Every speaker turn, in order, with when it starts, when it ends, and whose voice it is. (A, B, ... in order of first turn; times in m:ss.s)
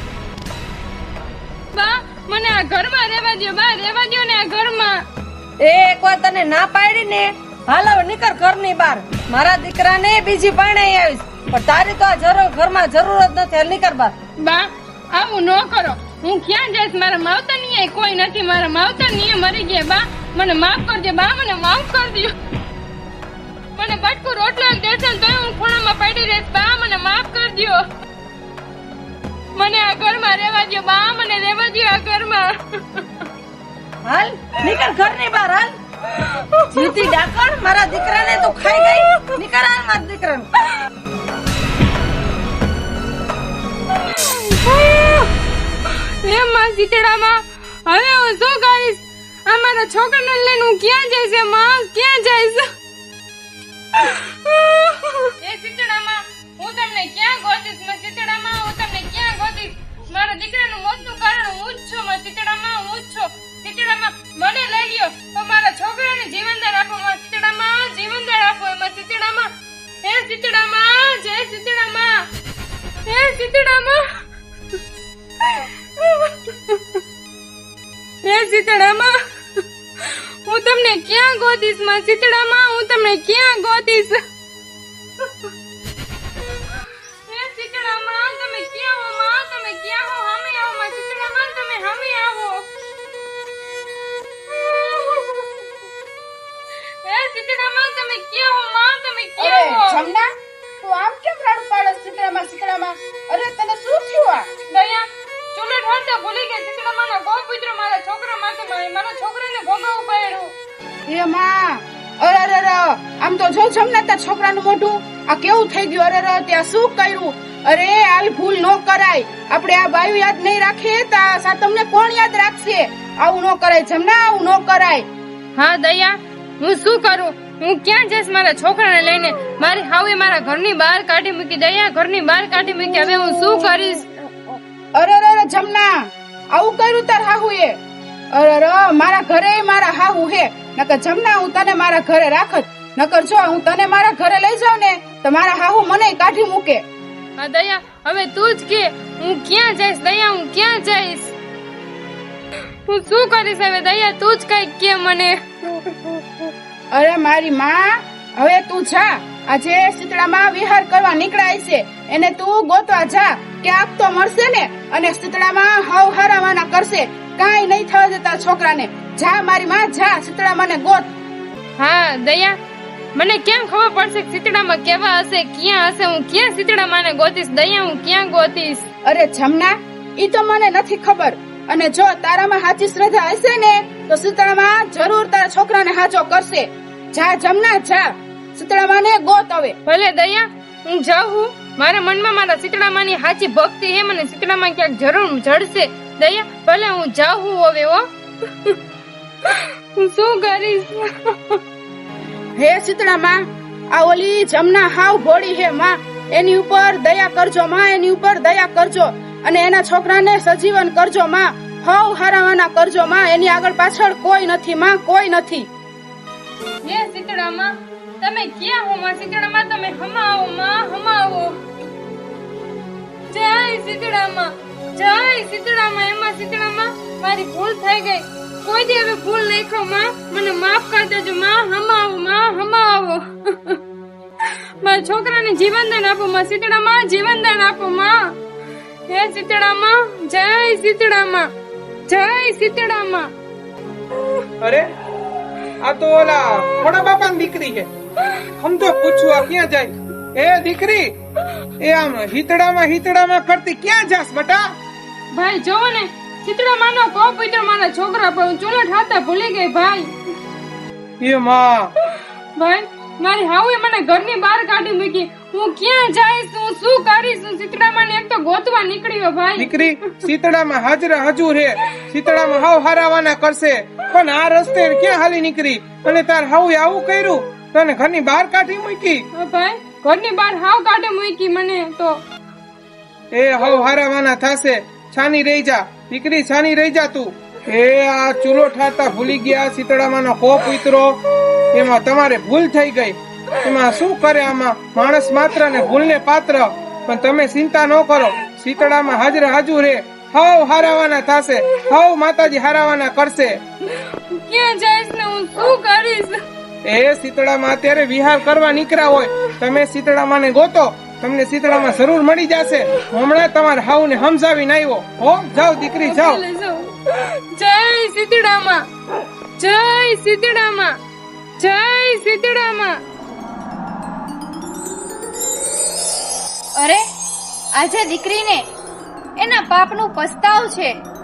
0:01.7-0:05.0 A
0:05.6-0:14.2 B
0:14.4-0:22.4 A
0:23.8-0:27.8 A
0:29.5-0:33.3 A
0:34.0-0:35.7 B
0:36.2-0:37.2 A
0:36.7-0:40.5 B
0:44.0-0:45.3 A
0:45.8-0:52.7 A
0:53.9-1:09.5 A
1:10.0-1:12.3 A
1:13.0-1:14.2 A
1:15.4-1:17.0 A
1:18.2-1:24.2 A
1:25.2-1:25.5 A
1:26.4-1:32.7 A
1:34.5-1:35.7 A
1:37.0-1:40.0 A
1:39.4-1:40.3 C
1:40.8-1:44.5 C
1:44.7-1:50.5 A
1:51.1-2:05.0 C
2:05.6-2:14.1 A
2:14.9-2:17.8 C
2:18.3-2:26.8 C
2:27.4-2:31.4 A
2:32.9-2:36.5 A
2:36.9-2:51.1 C
2:51.8-2:52.6 A
2:53.2-2:58.8 A
2:59.0-3:09.8 C
3:09.8-3:18.8 A
3:19.4-3:21.6 A
3:22.6-3:35.7 C
3:36.8-3:41.6 A
3:43.3-3:53.8 A
3:54.4-3:58.4 A
3:59.1-4:01.5 A
4:02.1-4:03.3 A
4:04.6-4:04.9 D
4:05.8-4:07.9 D
4:08.6-4:11.1 D
4:11.8-4:14.7 D
4:15.3-4:20.1 A
4:21.2-4:21.9 D
4:22.1-4:30.3 A
4:29.6-4:39.2 D
4:39.3-4:42.2 A
4:43.3-4:51.2 D
4:51.7-5:03.6 D
5:04.0-5:06.4 A
5:06.8-5:16.4 D
5:16.0-5:18.9 A
5:19.6-5:21.0 A
5:21.6-5:23.0 A
5:26.8-5:27.0 E
5:27.8-5:28.6 E
5:29.4-5:30.9 E